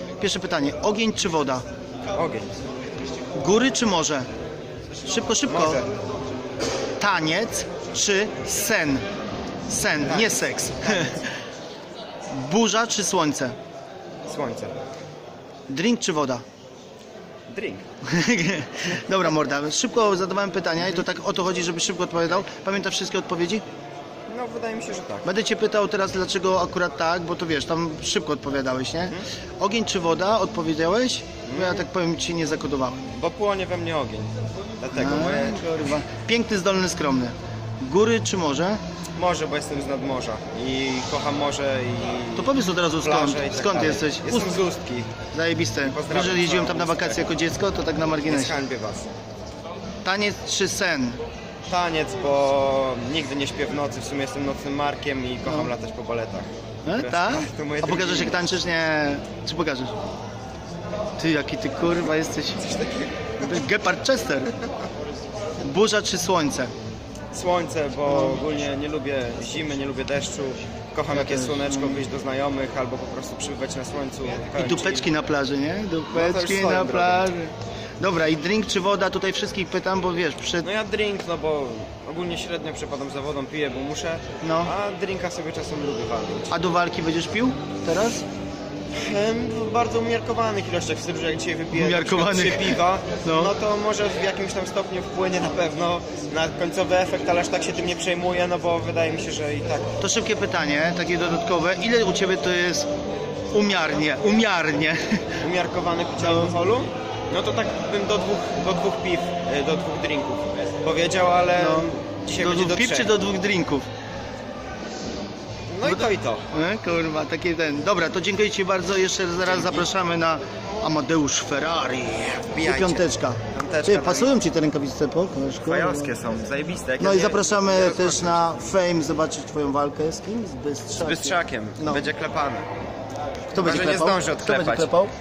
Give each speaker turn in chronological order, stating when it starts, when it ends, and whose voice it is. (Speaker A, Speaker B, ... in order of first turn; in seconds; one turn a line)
Speaker A: 0.2-1.6
Speaker B: 2.1-2.5
Speaker A: 3.4-4.3
Speaker A: 5.0-5.8
Speaker B: 5.5-5.9
Speaker A: 7.0-9.0
Speaker A: 9.7-11.2
Speaker B: 10.0-11.2
Speaker A: 12.3-13.5
Speaker B: 14.3-14.7
Speaker A: 15.7-16.4
Speaker B: 17.5-17.8
Speaker A: 18.0-23.6
Speaker B: 24.3-25.3
Speaker A: 25.2-33.0
Speaker B: 31.4-31.8
Speaker B: 33.1-35.8
Speaker A: 34.9-38.8
Speaker B: 39.1-45.1
Speaker A: 42.4-44.6
Speaker A: 45.3-48.6
Speaker B: 45.8-47.3
Speaker B: 48.2-49.1
Speaker A: 50.0-51.2
Speaker B: 51.7-58.5
Speaker A: 55.5-55.7
Speaker A: 56.8-59.9
Speaker A: 61.2-62.8
Speaker B: 62.7-63.1
Speaker A: 63.4-64.5
Speaker A: 65.6-66.7
Speaker B: 67.3-75.1
Speaker A: 68.1-68.4
Speaker A: 71.1-72.0
Speaker A: 74.5-80.7
Speaker B: 76.1-77.3
Speaker B: 80.6-86.5
Speaker A: 84.4-84.7
Speaker A: 86.5-88.2
Speaker B: 88.9-99.9
Speaker A: 91.7-93.5
Speaker A: 100.0-102.9
Speaker A: 103.5-105.3
Speaker B: 105.4-113.1
Speaker A: 106.2-106.5
Speaker A: 111.6-113.8
Speaker B: 115.7-116.4
Speaker A: 115.8-126.2
Speaker B: 119.4-119.9
Speaker B: 122.5-124.3
Speaker B: 125.6-128.4
Speaker A: 127.0-132.1
Speaker B: 131.0-132.7
Speaker A: 133.5-135.1
Speaker B: 133.6-134.9